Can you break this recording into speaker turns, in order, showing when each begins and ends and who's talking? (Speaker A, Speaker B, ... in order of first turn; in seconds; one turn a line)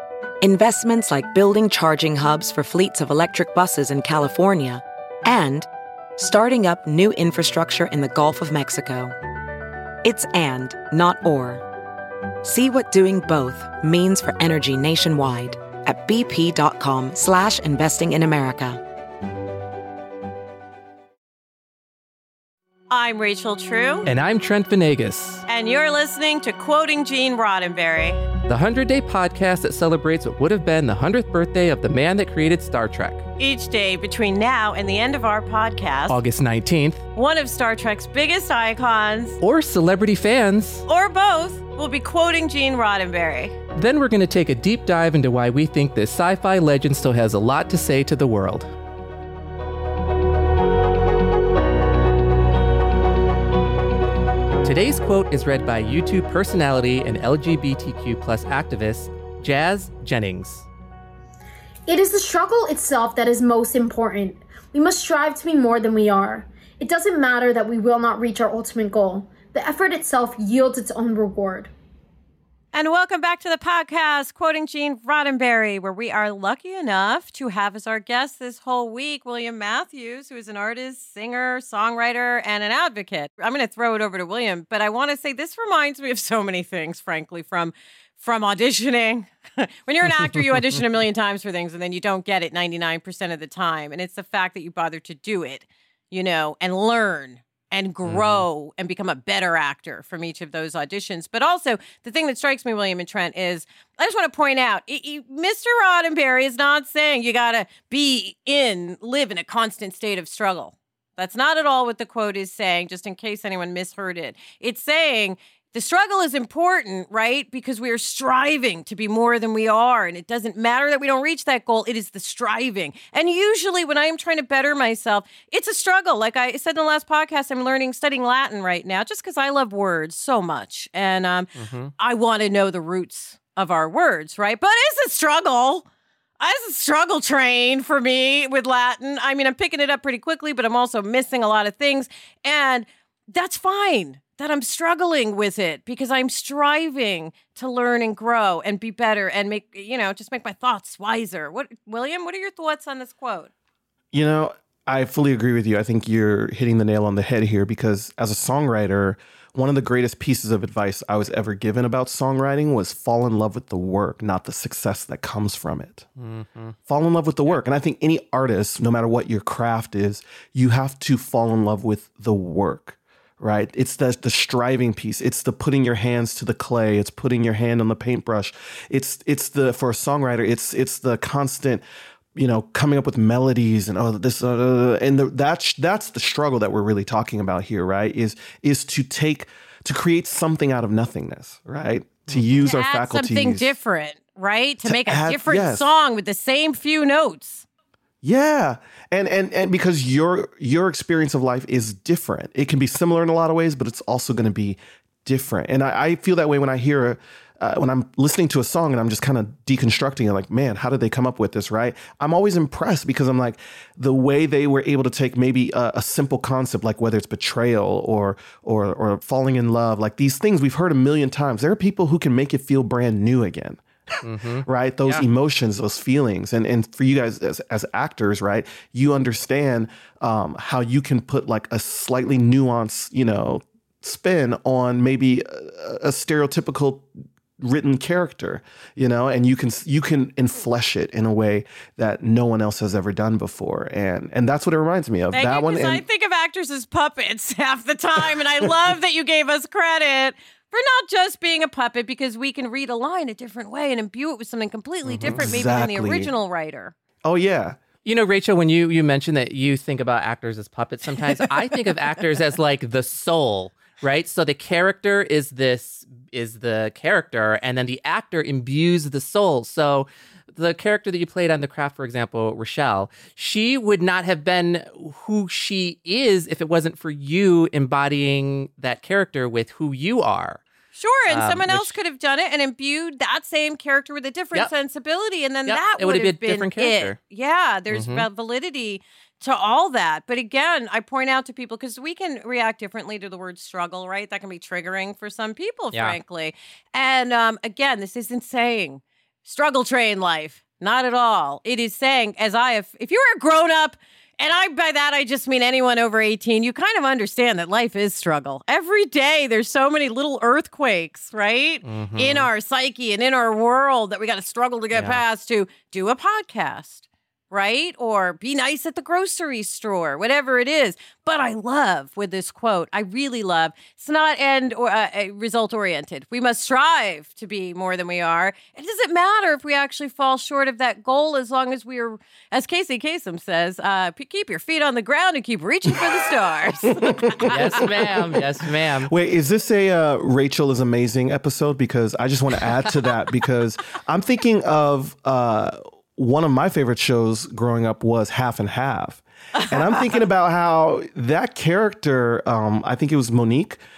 Speaker A: 0.4-9.2
Speaker A: 10.0-11.6
Speaker A: 12.4-18.8
Speaker B: 22.9-24.1
Speaker C: 24.0-25.4
Speaker B: 25.4-28.2
Speaker C: 28.5-33.2
Speaker B: 33.4-36.2
Speaker C: 36.1-37.0
Speaker B: 37.1-39.4
Speaker C: 39.4-40.8
Speaker B: 40.9-43.5
Speaker C: 43.7-48.7
Speaker C: 54.6-60.7
Speaker D: 61.9-71.7
Speaker B: 72.7-135.8
Speaker C: 98.0-98.4
Speaker C: 131.6-131.9
Speaker B: 136.4-153.5
Speaker E: 154.1-166.1
Speaker C: 166.2-166.7
Speaker E: 166.9-181.8
Speaker E: 182.3-193.8
Speaker C: 192.3-192.6
Speaker B: 192.6-197.6
Speaker E: 194.8-195.9
Speaker E: 198.2-223.8
Speaker C: 224.2-225.2
Speaker E: 224.6-237.1
Speaker E: 237.6-246.0
Speaker B: 245.3-256.9
Speaker C: 255.2-255.5
Speaker E: 255.2-256.3
Speaker E: 257.2-257.8
Speaker C: 258.0-280.6
Speaker B: 280.9-337.9
Speaker C: 281.3-281.9
Speaker C: 285.6-287.1
Speaker C: 287.9-288.2
Speaker C: 311.8-312.5
Speaker C: 314.9-315.2
Speaker E: 336.8-338.0
Speaker C: 337.5-339.1
Speaker E: 339.1-353.8
Speaker B: 349.7-350.1